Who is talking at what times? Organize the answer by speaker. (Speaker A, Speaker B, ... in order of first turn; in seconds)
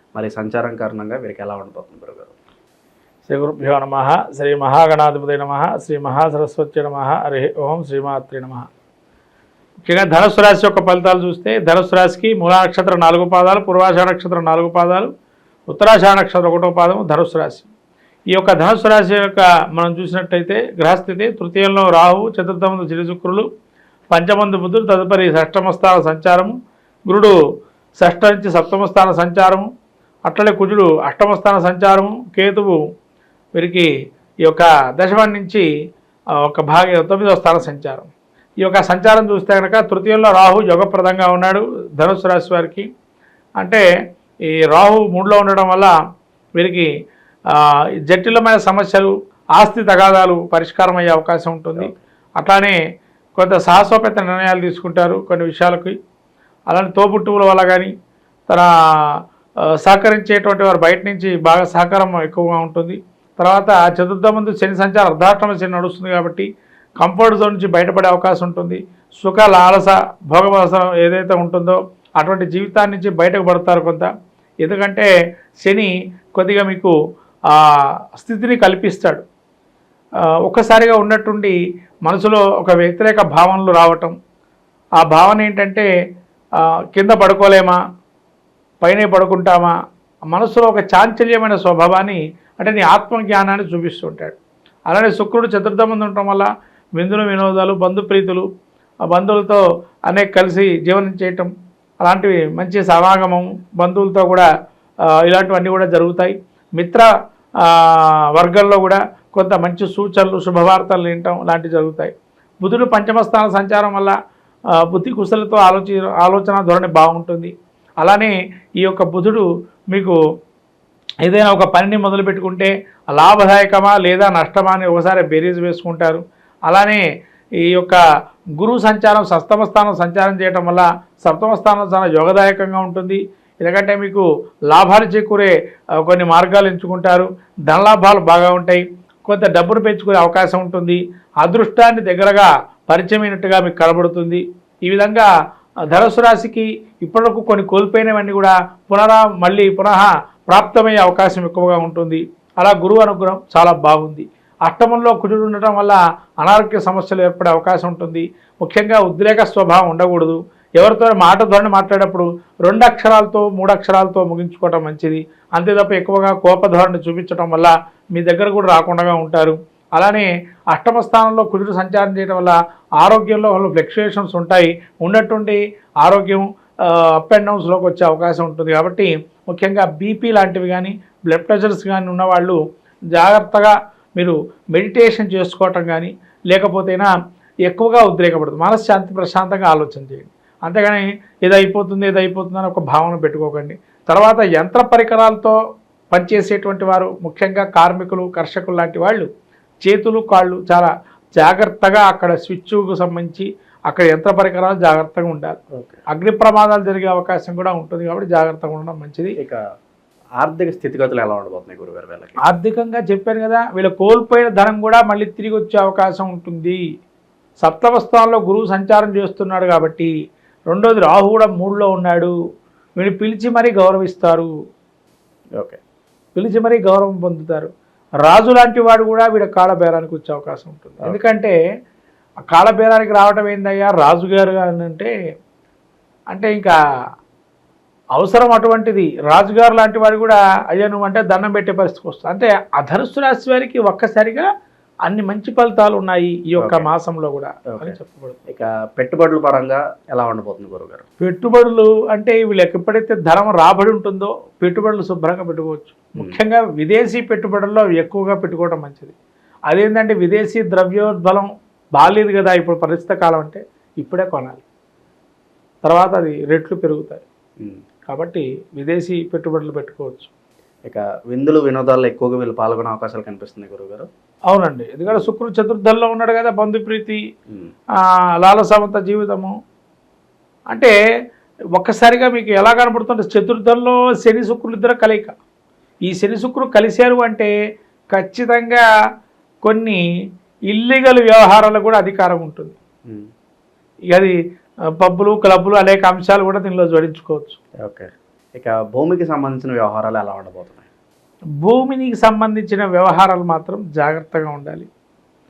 Speaker A: 0.1-2.3, 205.7-206.0, 210.4-212.4, 246.6-246.9, 248.5-251.0, 270.9-274.1, 297.8-300.9
Speaker B: 3.3-8.7, 9.9-15.1, 15.7-17.7, 18.3-23.4, 24.1-26.5, 27.1-27.3, 28.0-29.6, 30.3-32.8, 33.5-33.9, 34.5-35.6, 36.4-38.1, 38.6-42.9, 43.6-43.8, 44.5-45.9, 46.6-46.9, 48.1-52.8, 53.4-55.9, 56.7-57.9, 59.8-66.5, 67.0-74.1, 74.6-75.1, 75.6-76.9, 78.2-79.2, 80.5-84.1, 85.0-85.9, 86.9-87.8, 88.8-89.7, 90.3-94.4, 94.9-98.4, 99.1-101.5, 102.0-104.5, 105.2-107.0, 107.6-114.1, 114.8-120.2, 121.2-127.0, 127.6-128.0, 128.6-145.3, 145.9-182.6, 183.1-187.1, 187.7-195.6, 196.1-199.3, 199.8-205.6, 206.1-209.3, 212.4-216.8, 217.6-220.1, 220.7-222.3, 223.0-224.5, 226.3-227.7, 228.2-231.5, 232.5-235.1, 236.3-236.7, 238.2-244.5, 245.1-248.4, 251.2-259.1, 259.7-264.6, 265.8-267.2, 268.1-270.3, 274.5-277.2, 278.4-279.5, 281.7-285.3, 286.1-287.5, 288.1-288.9, 289.6-290.0, 290.7-292.7, 295.0-297.6, 301.6-304.9